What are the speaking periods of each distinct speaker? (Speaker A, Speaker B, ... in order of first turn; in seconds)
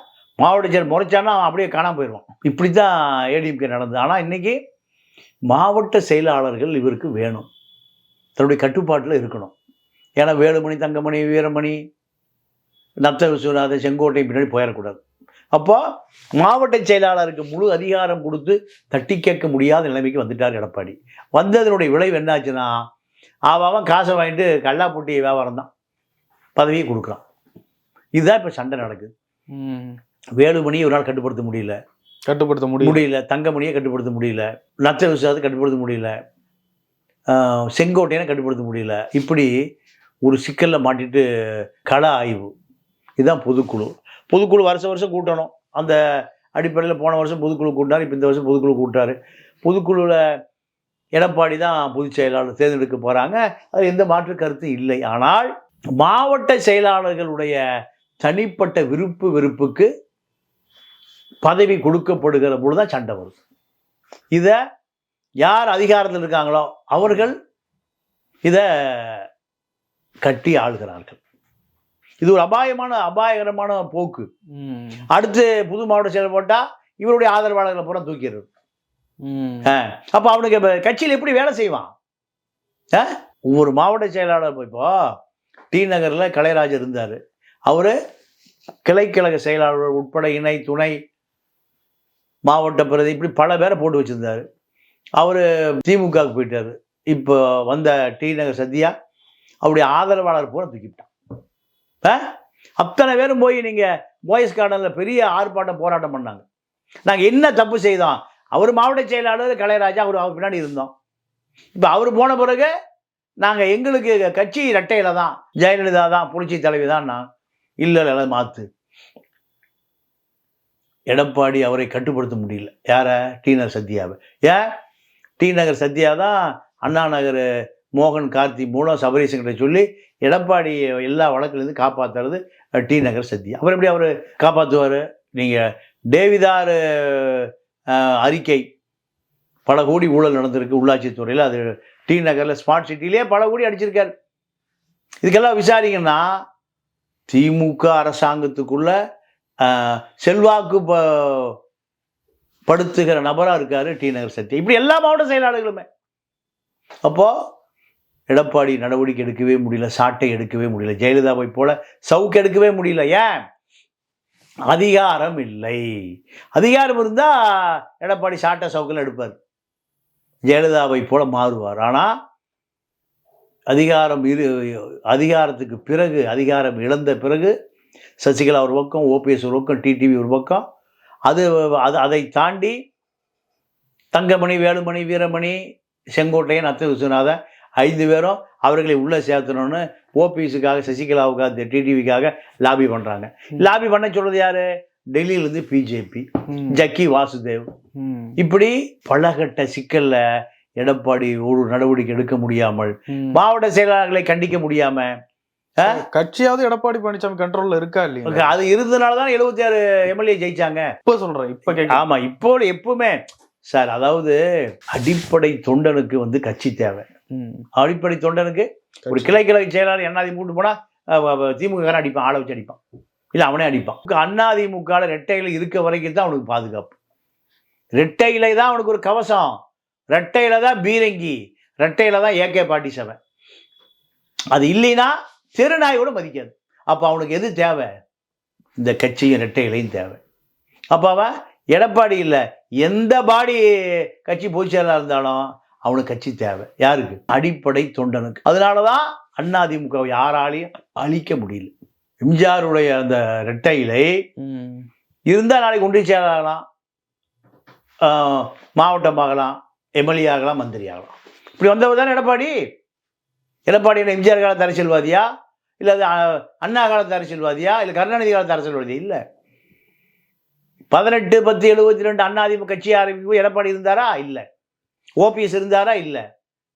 Speaker A: 0.4-4.6, 5.5-7.5, 8.4-9.5, 10.2-11.8, 13.0-15.0, 15.5-15.8, 16.4-22.7, 23.5-25.7, 26.6-27.2, 28.2-29.1, 30.4-31.8, 32.8-36.1, 37.3-39.5, 40.3-41.2, 41.9-42.5, 43.2-46.0, 46.6-50.2, 51.1-57.5, 58.2-59.9, 61.4-63.3, 65.4-67.3, 68.4-69.2, 70.2-71.2, 72.2-74.3, 75.1-78.5, 79.7-81.9, 82.9-84.9, 85.7-87.9, 88.8-90.9, 92.5-94.4, 95.2-98.9, 99.6-101.1, 102.8-106.4, 107.0-110.9, 111.8-112.7, 113.4-117.2, 117.8-118.7, 121.1-124.6, 125.4-127.4, 128.0-135.6, 136.1-138.6, 139.7-144.1, 145.2-146.3, 147.3-148.9, 149.6-151.5, 152.7-155.8, 157.0-157.3, 158.3-163.4, 164.7-165.8, 166.5-169.3, 170.5-172.1, 173.7-177.5, 178.2-180.6, 181.3-182.7, 184.1-185.6, 186.2-197.6, 198.4-200.2, 200.8-205.1, 208.2-210.9, 211.7-213.2, 213.7-214.4, 214.9-217.1, 217.8-222.8, 223.3-226.9, 228.0-229.5, 230.1-233.2, 234.5-237.9, 238.8-240.2, 240.9-243.7, 244.2-251.7, 252.2-254.1, 255.3-256.6, 258.0-262.5, 263.7-265.2, 265.8-269.2, 270.9-274.4, 275.2-276.2
Speaker B: 29.5-29.9, 32.3-33.0, 74.5-75.0, 79.2-79.7, 196.5-196.8, 198.0-198.3, 203.1-203.4, 205.8-208.5, 211.1-212.0, 217.3-217.6, 219.1-219.4, 254.4-254.8